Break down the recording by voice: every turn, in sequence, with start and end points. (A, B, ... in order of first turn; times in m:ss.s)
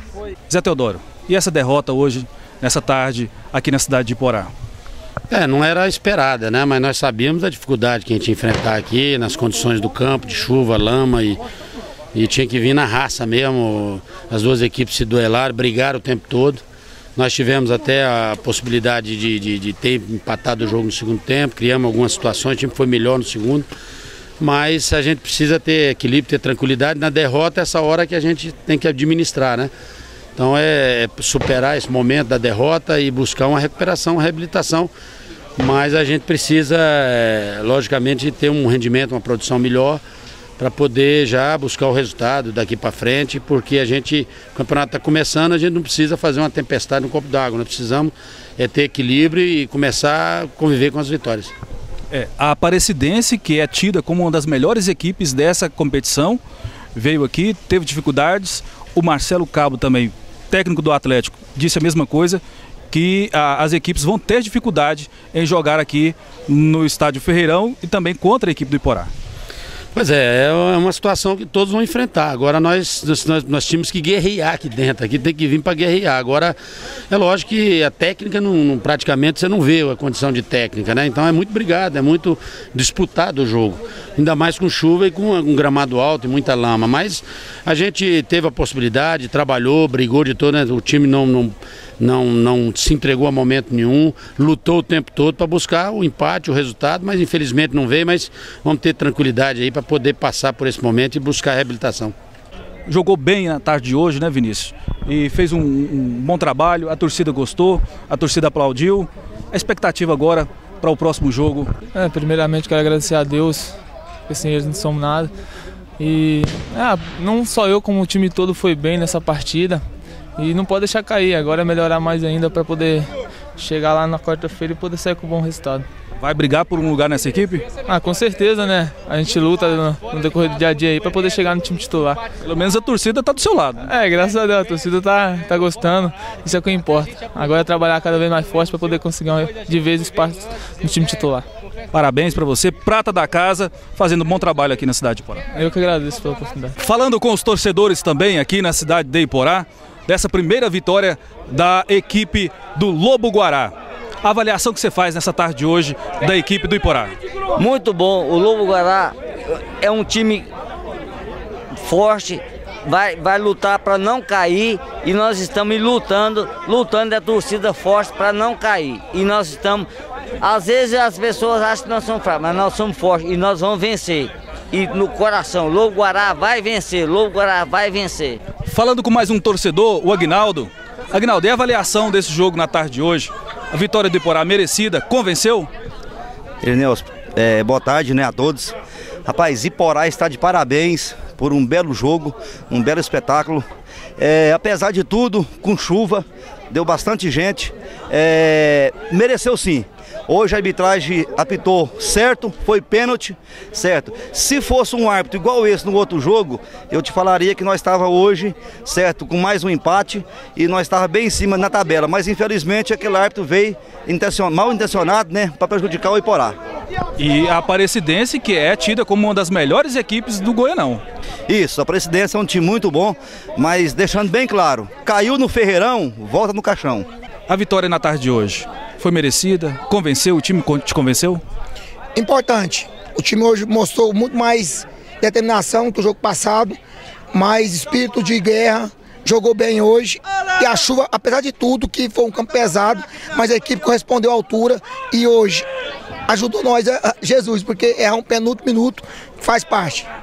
0:00.5-0:04.5 A
0:05.3-0:11.4 B
0:12.1-0:16.6 B
0:17.2-0:23.7 B
0:24.4-0:29.7 B
0:30.4-0:34.9 B
0:35.6-0:40.0 B
0:40.6-0:51.5 B
0:52.1-0:56.4 A
0:57.0-1:09.1 A
1:10.0-1:16.6 B
1:17.1-1:42.1 B
1:42.9-1:51.7 A
1:51.9-1:53.8 C
1:54.3-1:55.3 C
1:56.0-1:59.8 C
2:00.4-2:05.9 C
2:06.2-2:07.6 A
2:07.9-2:12.2 C
2:12.4-2:13.9 A
2:13.8-2:21.4 C
2:21.9-2:25.4 A
2:25.5-2:26.7 C
2:26.8-2:37.1 A
2:37.6-2:40.5 D
2:41.8-2:49.9 D
2:50.4-2:58.4 D
2:58.7-3:05.7 A
3:06.6-3:13.7 E
3:14.2-3:36.6 E
3:37.2-3:41.0 A
3:41.5-3:47.1 E
3:47.5-3:51.4 A
3:52.2-3:56.8 F
3:57.3-4:05.7 F
4:06.3-4:10.1 F